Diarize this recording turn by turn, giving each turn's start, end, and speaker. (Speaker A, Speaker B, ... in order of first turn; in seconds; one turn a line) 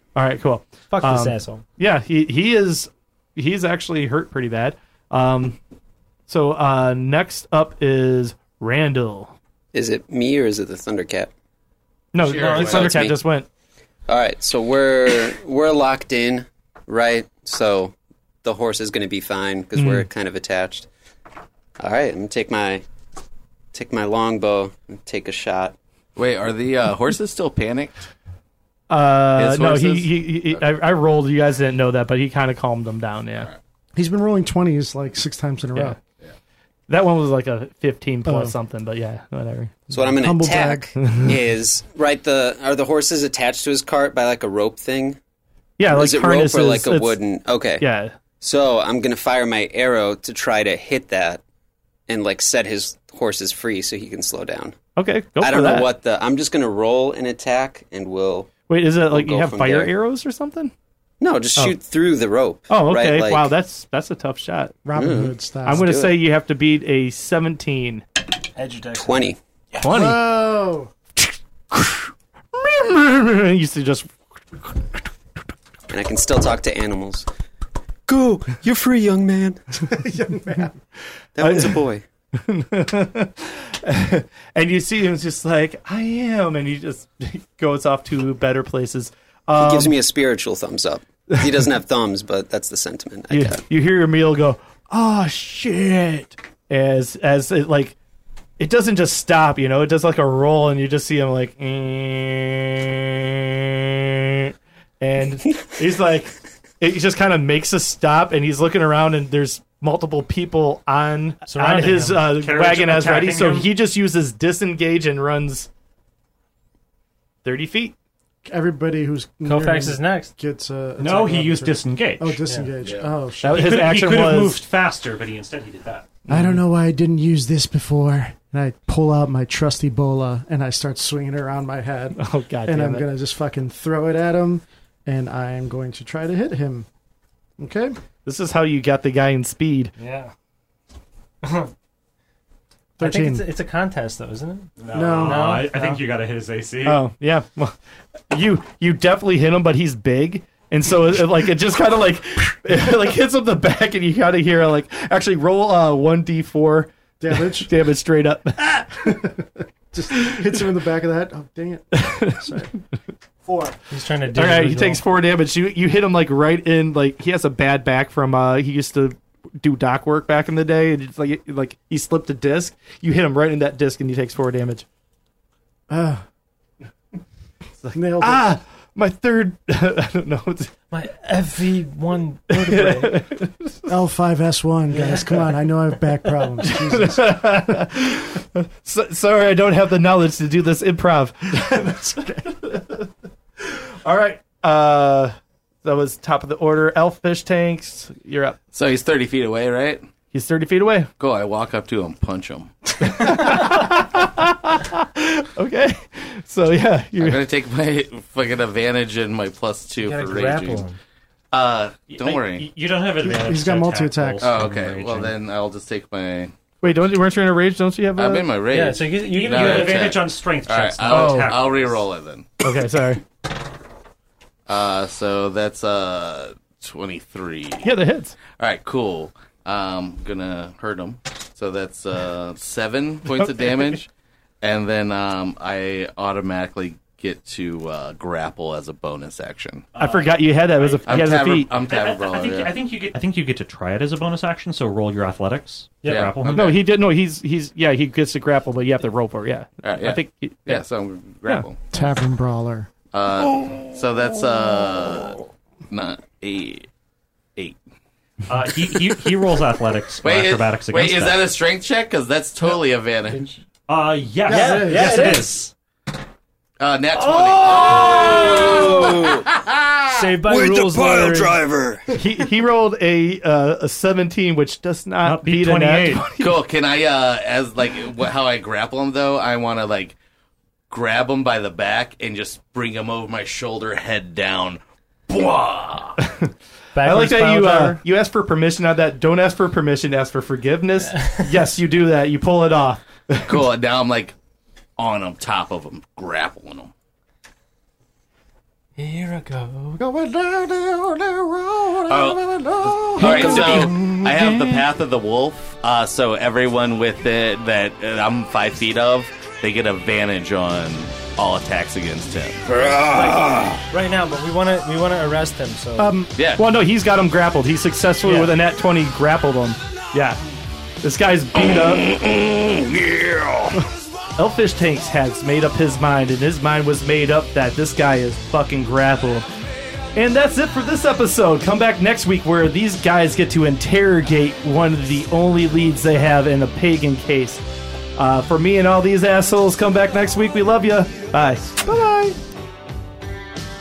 Speaker A: 0.1-5.6
Speaker B: 0.9-1.6
Speaker A: 6.3-9.3
Speaker C: 9.7-11.3
Speaker A: 12.1-13.5
Speaker D: 12.2-13.0
Speaker B: 12.3-12.8
Speaker C: 12.5-13.2
Speaker C: 14.1-20.9
Speaker A: 19.8-20.1
Speaker C: 21.8-22.8
Speaker C: 23.7-25.8
Speaker D: 26.2-28.1
Speaker A: 28.9-33.5
Speaker D: 29.4-30.6
Speaker E: 34.0-36.0
Speaker A: 36.9-39.9
Speaker E: 38.3-38.5
Speaker C: 39.9-45.2
Speaker E: 39.9-40.9
Speaker A: 41.0-41.4
Speaker A: 45.8-47.2
Speaker C: 45.9-47.9
Speaker A: 47.8-48.1
Speaker C: 48.4-51.4
Speaker C: 52.1-54.8
Speaker A: 55.0-55.9
Speaker C: 55.4-58.5
Speaker A: 58.7-60.7
Speaker C: 59.1-59.9
Speaker C: 61.2-63.5
Speaker A: 62.7-64.8
Speaker E: 64.8-65.9
Speaker C: 65.0-66.2
Speaker A: 65.7-68.0
Speaker B: 68.5-69.3
Speaker C: 69.0-69.4
Speaker A: 69.8-70.3
Speaker E: 69.8-70.9
Speaker A: 71.2-75.0
Speaker C: 75.9-77.3
Speaker C: 78.1-79.7
Speaker E: 79.9-80.8
Speaker C: 81.4-82.0
Speaker A: 81.4-81.8
Speaker A: 82.3-89.9
Speaker C: 89.6-93.6
Speaker A: 93.3-98.0
Speaker A: 98.6-115.7
Speaker B: 111.5-112.4
Speaker F: 112.3-113.7
Speaker A: 117.4-118.0
Speaker E: 118.5-123.9
Speaker B: 119.4-120.3
Speaker F: 121.0-122.4
Speaker B: 122.5-122.7
Speaker D: 122.8-123.1
Speaker A: 123.4-124.6
Speaker F: 123.4-126.1
Speaker A: 126.3-126.6
Speaker E: 126.3-136.9
Speaker A: 132.2-133.1
Speaker E: 137.6-137.9
Speaker A: 138.2-139.9
Speaker B: 140.0-140.3
Speaker B: 141.4-141.7
Speaker E: 143.0-143.5
Speaker B: 143.0-146.0
Speaker F: 144.8-147.0
Speaker E: 144.9-145.7
Speaker A: 146.8-147.8
Speaker A: 148.3-159.3
Speaker E: 157.2-157.8
Speaker E: 159.0-159.3
Speaker E: 159.9-162.7
Speaker A: 160.1-160.5
Speaker A: 161.9-162.7
Speaker E: 163.4-163.8
Speaker B: 163.9-165.0
Speaker A: 164.3-174.8
Speaker E: 175.9-176.2
Speaker A: 177.8-180.7
Speaker E: 177.9-178.5
Speaker B: 180.9-183.2
Speaker A: 182.7-183.9
Speaker E: 183.9-187.8
Speaker B: 184.9-185.4
Speaker A: 186.6-193.1
Speaker A: 193.6-198.6
Speaker D: 198.7-200.0
Speaker A: 200.3-201.1
Speaker D: 201.2-203.6
Speaker A: 203.0-207.4
Speaker D: 207.2-210.8
Speaker B: 210.0-211.0
Speaker D: 211.5-212.7
Speaker F: 212.1-215.3
Speaker E: 213.2-214.5
Speaker D: 214.4-216.5
Speaker A: 216.8-218.5
Speaker D: 218.2-222.6
Speaker B: 218.7-220.0
Speaker F: 219.3-222.0
Speaker A: 221.1-221.6
Speaker A: 222.6-223.2
Speaker D: 224.7-227.9
Speaker A: 227.8-228.4
Speaker D: 228.4-234.1
Speaker D: 234.6-239.9
Speaker F: 239.9-246.8
Speaker A: 240.0-241.7
Speaker D: 241.1-242.7
Speaker B: 246.0-246.3
Speaker D: 246.1-246.8
Speaker A: 246.5-250.8
Speaker D: 249.8-251.8
Speaker E: 251.9-252.9
Speaker D: 253.1-256.9
Speaker F: 258.5-261.5
Speaker D: 260.2-263.5
Speaker B: 263.3-263.6
Speaker F: 263.9-265.7
Speaker E: 264.5-265.5
Speaker B: 264.5-265.5
Speaker D: 266.8-270.2
Speaker C: 267.6-269.5
Speaker B: 267.8-268.8
Speaker B: 270.1-271.6
Speaker C: 270.4-272.0
Speaker A: 272.2-276.6
Speaker F: 275.2-276.3
Speaker D: 276.4-280.2
Speaker D: 280.9-286.2
Speaker A: 286.2-293.6
Speaker B: 286.9-288.0
Speaker B: 291.1-291.5
Speaker D: 293.5-294.4
Speaker D: 295.0-296.9
Speaker B: 299.0-300.0
Speaker E: 300.0-304.8
Speaker D: 302.1-313.8
Speaker C: 303.2-304.0
Speaker B: 313.0-316.2
Speaker E: 316.0-316.3
Speaker D: 316.4-316.6
Speaker A: 316.6-320.4
Speaker B: 318.2-318.5
Speaker A: 321.0-322.1
Speaker D: 322.1-323.8
Speaker A: 324.4-329.5
Speaker A: 330.1-337.6
Speaker A: 338.2-342.4